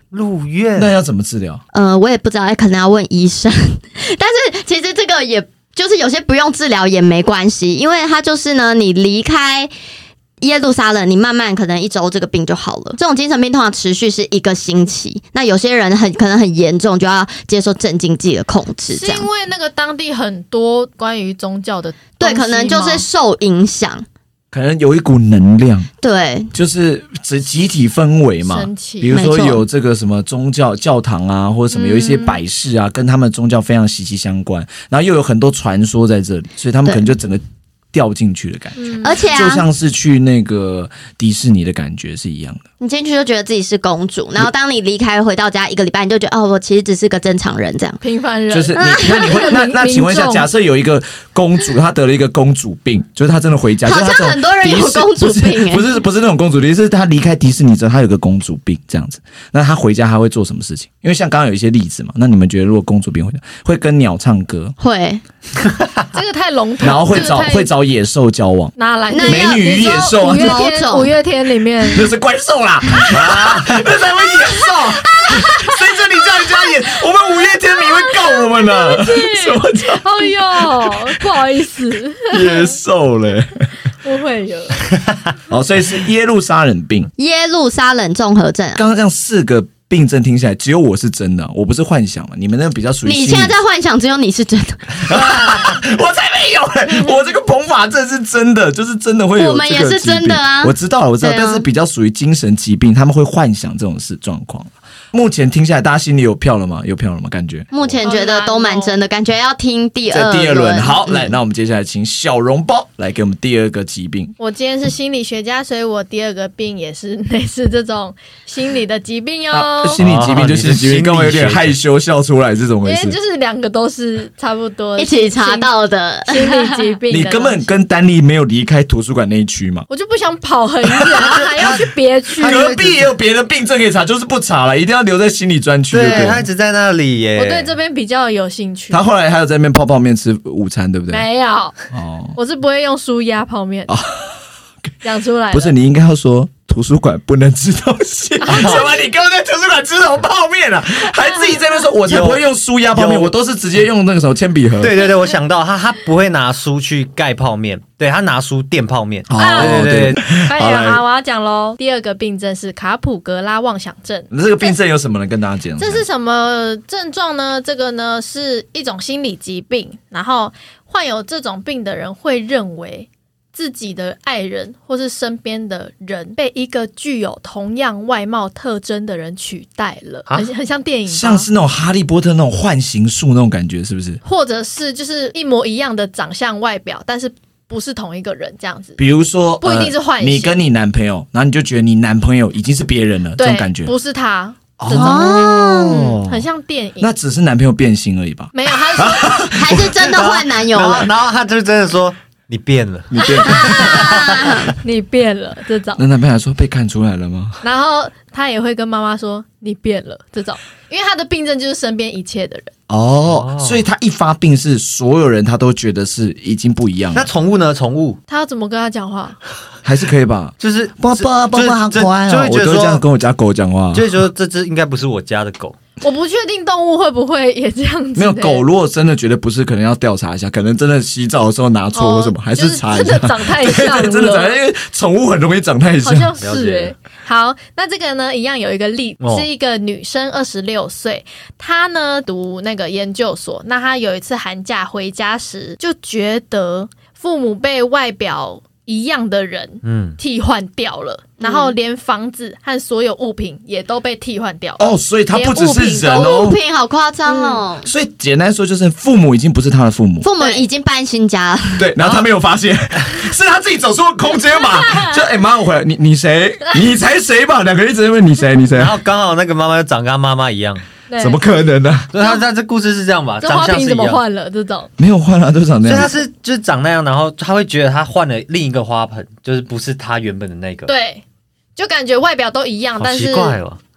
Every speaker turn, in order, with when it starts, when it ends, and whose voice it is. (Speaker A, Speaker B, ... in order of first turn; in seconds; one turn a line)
Speaker A: 0.1-0.9
Speaker B: 0.8-1.6
Speaker C: 1.7-9.7
Speaker C: 10.4-19.3
Speaker D: 18.9-23.0
Speaker C: 22.2-24.1
Speaker B: 24.5-25.9
Speaker C: 26.0-26.5
Speaker B: 26.5-42.6
Speaker D: 28.4-29.2
Speaker C: 29.1-29.6
Speaker D: 31.7-32.4
Speaker D: 38.8-39.2
Speaker C: 39.0-39.6
Speaker C: 42.8-48.0
Speaker D: 48.0-50.5
Speaker B: 48.5-64.7
Speaker C: 48.7-49.6
Speaker C: 53.8-55.8
Speaker C: 64.8-65.2
Speaker D: 66.1-67.7
Speaker B: 66.8-70.6
Speaker D: 68.8-72.1
Speaker C: 69.1-69.7
Speaker C: 70.3-71.1
Speaker B: 71.9-81.3
Speaker A: 73.3-73.6
Speaker D: 75.2-75.8
Speaker D: 77.5-82.7
Speaker B: 82.3-83.7
Speaker D: 84.0-84.9
Speaker B: 85.5-87.1
Speaker C: 87.2-88.8
Speaker B: 88.8-93.5
Speaker C: 93.0-95.5
Speaker B: 95.0-107.7
Speaker C: 99.4-101.6
Speaker C: 107.7-111.3
Speaker D: 108.0-109.0
Speaker B: 110.1-114.3
Speaker D: 114.4-120.0
Speaker B: 119.5-123.2
Speaker A: 120.0-121.8
Speaker D: 122.8-125.7
Speaker C: 125.0-127.0
Speaker D: 126.3-127.8
Speaker B: 127.1-129.8
Speaker D: 129.9-132.6
Speaker B: 130.9-131.4
Speaker A: 132.4-133.1
Speaker B: 132.4-136.4
Speaker A: 135.9-137.7
Speaker D: 136.0-136.4
Speaker D: 137.4-139.0
Speaker B: 138.9-141.3
Speaker D: 141.1-141.7
Speaker B: 141.9-142.3
Speaker D: 142.3-143.9
Speaker B: 143.9-144.3
Speaker D: 145.0-145.7
Speaker B: 145.5-155.0
Speaker D: 148.4-148.8
Speaker A: 148.5-148.8
Speaker A: 152.1-153.3
Speaker A: 154.8-160.2
Speaker B: 159.3-161.0
Speaker D: 159.4-159.8
Speaker D: 160.4-164.7
Speaker B: 164.3-166.0
Speaker D: 165.8-181.5
Speaker B: 181.1-184.2
Speaker D: 184.2-189.0
Speaker B: 189.0-193.9
Speaker D: 189.6-190.6
Speaker D: 193.4-197.1
Speaker B: 194.8-196.4
Speaker C: 194.9-196.2
Speaker B: 197.0-200.2
Speaker D: 198.5-199.4
Speaker C: 199.5-201.1
Speaker A: 200.1-204.7
Speaker B: 203.1-204.1
Speaker D: 203.4-206.0
Speaker C: 203.4-204.7
Speaker B: 205.9-207.6
Speaker D: 207.6-212.7
Speaker B: 212.9-217.3
Speaker A: 213.3-213.8
Speaker A: 217.1-218.2
Speaker D: 218.3-219.4
Speaker B: 219.8-224.1
Speaker A: 220.6-223.0
Speaker A: 223.9-225.8
Speaker D: 226.0-228.6
Speaker B: 228.2-236.3
Speaker D: 231.9-234.6
Speaker D: 236.0-256.3
Speaker A: 236.4-236.9
Speaker A: 239.2-239.5
Speaker A: 249.8-250.2
Speaker C: 251.4-251.7
Speaker B: 254.8-256.6
Speaker C: 256.1-257.9
Speaker D: 257.2-257.6
Speaker B: 257.8-260.3
Speaker C: 260.2-261.9
Speaker B: 261.8-268.9
Speaker A: 262.0-262.2
Speaker A: 268.7-270.8
Speaker D: 271.1-271.4
Speaker B: 271.2-272.1
Speaker A: 272.1-274.2
Speaker D: 273.4-274.9
Speaker B: 275.0-276.2
Speaker A: 275.8-280.9
Speaker D: 280.9-281.2
Speaker D: 281.8-283.6
Speaker A: 283.0-283.8